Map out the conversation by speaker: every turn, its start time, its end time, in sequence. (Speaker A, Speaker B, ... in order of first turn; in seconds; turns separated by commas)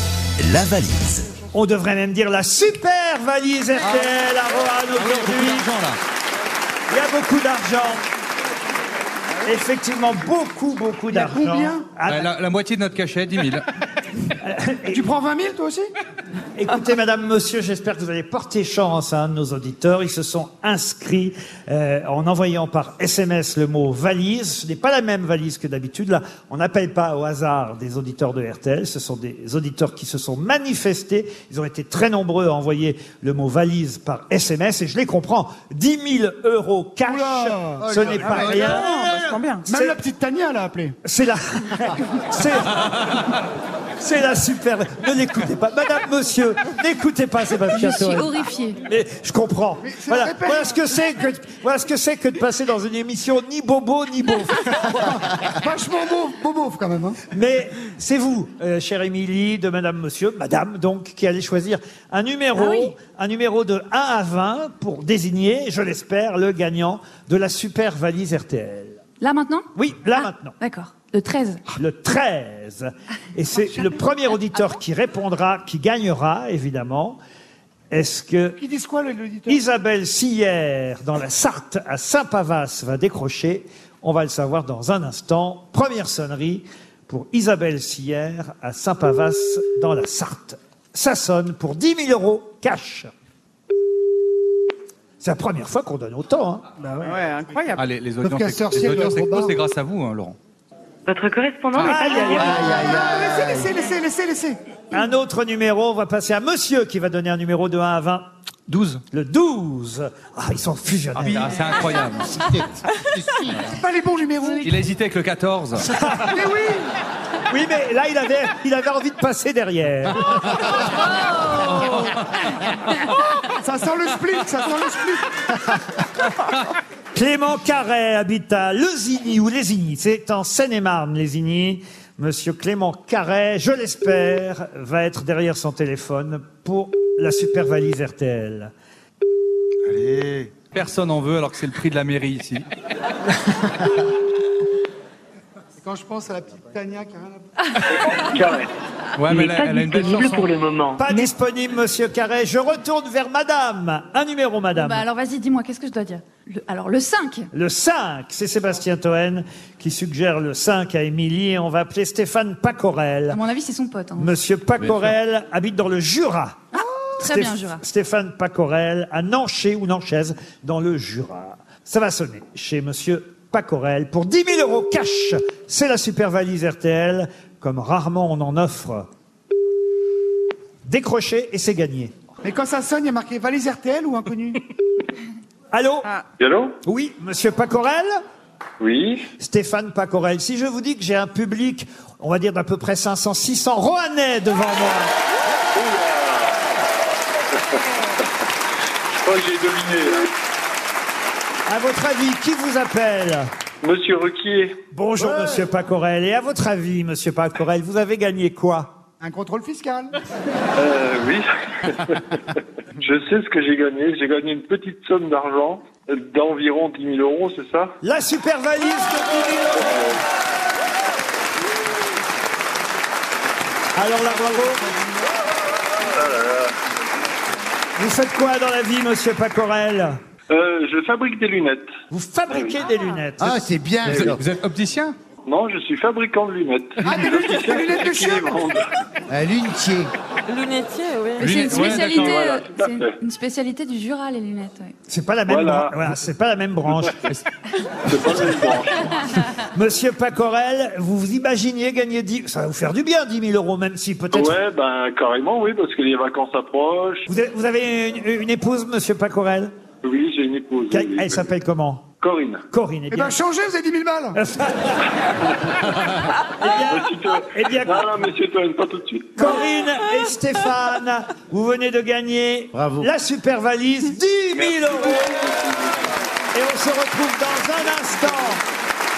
Speaker A: 0.4-1.1, Speaker B: 1.5-5.7, Speaker A: 3.9-4.2, Speaker A: 5.0-6.0, Speaker B: 6.9-8.0, Speaker B: 9.4-12.3, Speaker C: 11.1-11.9, Speaker A: 12.1-13.7, Speaker B: 14.4-15.0, Speaker C: 14.9-15.9, Speaker B: 16.6-40.0, Speaker C: 37.0-38.5, Speaker D: 37.8-38.8, Speaker E: 38.6-39.8, Speaker C: 39.6-40.9, Speaker B: 41.0-43.4, Speaker B: 44.0-55.2, Speaker F: 47.7-48.8, Speaker C: 49.8-50.9, Speaker C: 55.0-57.2, Speaker B: 57.3-69.0, Speaker F: 62.5-62.9, Speaker F: 69.2-71.7, Speaker B: 69.7-70.5, Speaker B: 71.8-77.2, Speaker B: 77.9-78.6, Speaker C: 78.6-79.6, Speaker B: 79.5-93.1, Speaker B: 95.2-96.7, Speaker C: 96.8-97.3, Speaker E: 97.0-97.8, Speaker A: 97.8-100.4, Speaker C: 98.2-99.5, Speaker G: 101.1-102.5, Speaker B: 101.8-102.8, Speaker C: 101.8-104.6, Speaker D: 102.4-103.8, Speaker B: 104.9-108.3, Speaker A: 108.7-109.0, Speaker B: 109.1-111.6, Speaker A: 111.1-112.5, Speaker D: 112.5-113.6, Speaker C: 113.7-114.7, Speaker A: 114.6-115.9, Speaker B: 115.8-116.4, Speaker C: 116.3-116.9, Speaker B: 117.5-120.6, Speaker C: 123.0-125.8, Speaker B: 127.1-138.7, Speaker D: 139.9-140.5, Speaker A: 140.7-142.7, Speaker C: 145.8-147.5, Speaker H: 147.8-148.7, Speaker A: 149.2-150.6, Speaker G: 149.4-151.2, Speaker E: 149.8-150.3, Speaker B: 151.0-155.0, Speaker F: 154.7-157.5, Speaker B: 157.5-163.4, Speaker F: 163.3-164.4, Speaker B: 164.2-166.6, Speaker F: 166.7-167.8, Speaker B: 167.2-179.1, Speaker B: 180.8-182.1, Speaker C: 182.4-184.6, Speaker B: 185.7-186.1, Speaker H: 186.4-186.8, Speaker B: 186.8-188.2, Speaker H: 188.8-189.2, Speaker B: 189.4-195.1, Speaker H: 195.7-196.6, Speaker H: 197.7-198.2, Speaker H: 199.1-200.3, Speaker B: 201.7-203.5, Speaker H: 203.8-204.8, Speaker B: 204.9-208.9, Speaker C: 209.2-210.2, Speaker H: 210.8-212.4, Speaker H: 212.9-218.0, Speaker B: 218.0-220.0, Speaker H: 219.7-220.2, Speaker B: 223.9-224.9, Speaker H: 226.0-226.7, Speaker B: 228.0-230.2, Speaker H: 230.5-231.9, Speaker B: 232.1-233.6, Speaker H: 232.5-232.8, Speaker D: 233.4-234.4, Speaker A: 234.0-235.2, Speaker H: 235.4-238.8, Speaker C: 237.0-238.6, Speaker D: 239.3-240.1, Speaker E: 240.5-241.5, Speaker A: 241.4-242.4, Speaker F: 241.4-244.9, Speaker H: 241.9-243.2, Speaker B: 245.1-247.2, Speaker H: 245.5-245.9, Speaker H: 248.1-249.4, Speaker B: 249.5-254.6, Speaker H: 254.3-257.3, Speaker B: 257.3-259.7, Speaker H: 260.0-261.4, Speaker B: 260.9-262.0, Speaker H: 262.2-262.6, Speaker B: 262.7-263.3, Speaker C: 263.1-264.4, Speaker B: 264.3-265.2, Speaker H: 265.4-265.9, Speaker B: 266.6-268.1, Speaker H: 266.9-269.5, Speaker B: 269.4-275.4, Speaker D: 272.8-273.0, Speaker H: 274.5-276.1, Speaker B: 276.5-278.6